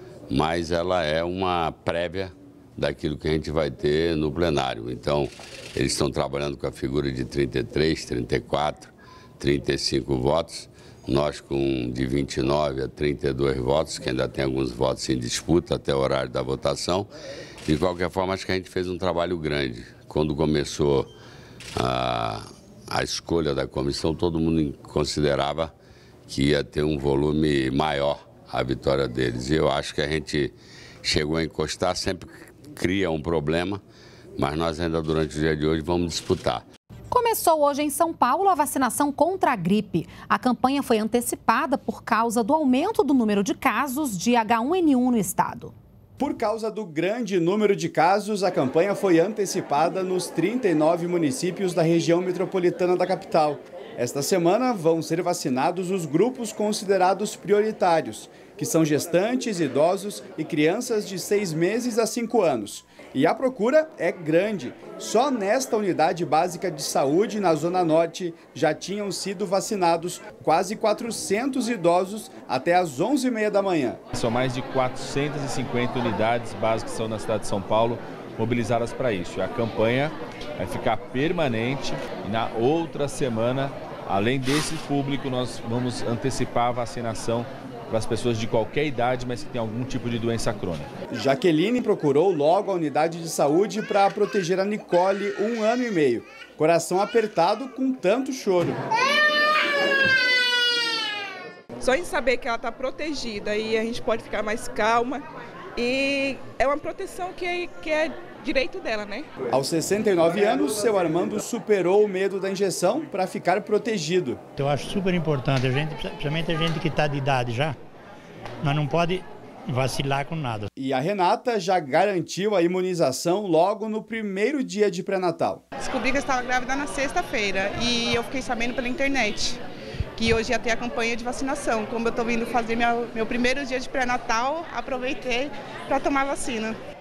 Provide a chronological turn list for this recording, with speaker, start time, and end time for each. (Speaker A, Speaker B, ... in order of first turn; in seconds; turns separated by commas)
Speaker A: 0.3-17.1, Speaker A: 17.6-21.1, Speaker A: 21.8-25.7, Speaker A: 26.3-33.8, Speaker A: 34.4-36.6, Speaker B: 37.1-45.7, Speaker C: 46.2-74.0, Speaker D: 74.1-90.9, Speaker C: 91.1-98.8, Speaker E: 101.8-105.2, Speaker E: 105.8-109.3, Speaker C: 109.5-114.4, Speaker F: 114.6-117.8, Speaker F: 118.6-120.7, Speaker C: 120.8-125.6, Speaker E: 125.8-129.6, Speaker E: 130.2-136.8